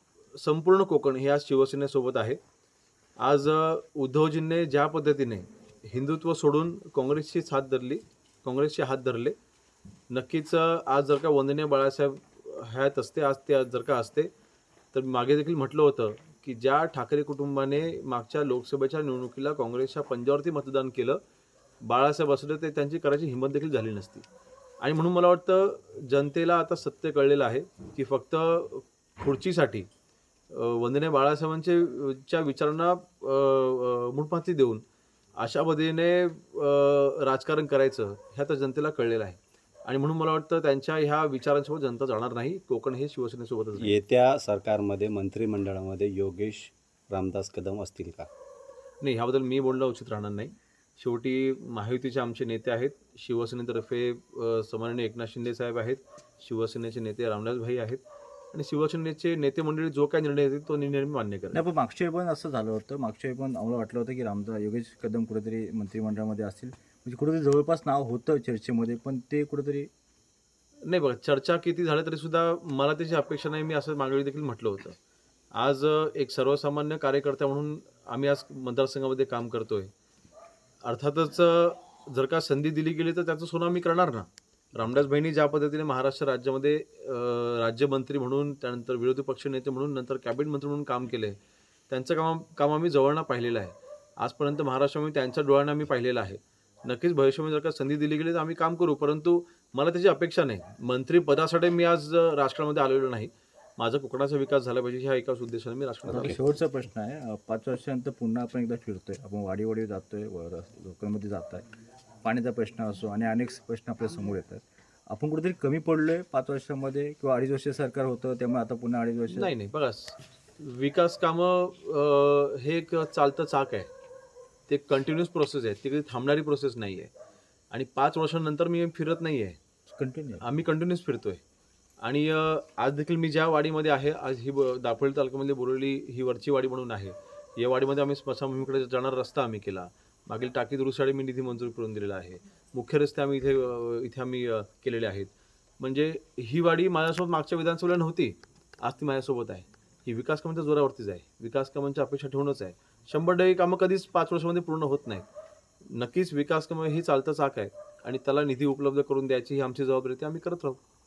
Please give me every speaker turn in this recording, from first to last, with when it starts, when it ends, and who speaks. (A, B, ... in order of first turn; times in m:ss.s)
0:00.4-0:02.4 A
0:03.2-0:09.4 A
0:10.1-0:14.3 A
0:14.9-0:21.2 A
0:21.8-0:24.2 A
0:24.8-0:29.9 A
0:30.5-0:34.8 A
0:35.4-0:44.0 A
0:43.8-0:48.3 B
0:49.0-0:58.0 A
0:58.5-1:01.6 A
1:01.5-1:09.9 C
1:10.9-1:15.0 A
1:15.6-1:19.9 A
1:20.8-1:31.4 A
1:31.9-1:46.4 A
1:46.1-1:46.4 B
1:46.1-1:51.6 C
1:52.2-1:59.5 C
1:59.3-2:03.9 A
2:04.7-2:07.1 A
2:07.7-2:09.6 A
2:09.9-2:10.4 C
2:10.4-2:11.4 A
2:12.0-2:35.2 A
2:35.9-2:40.8 A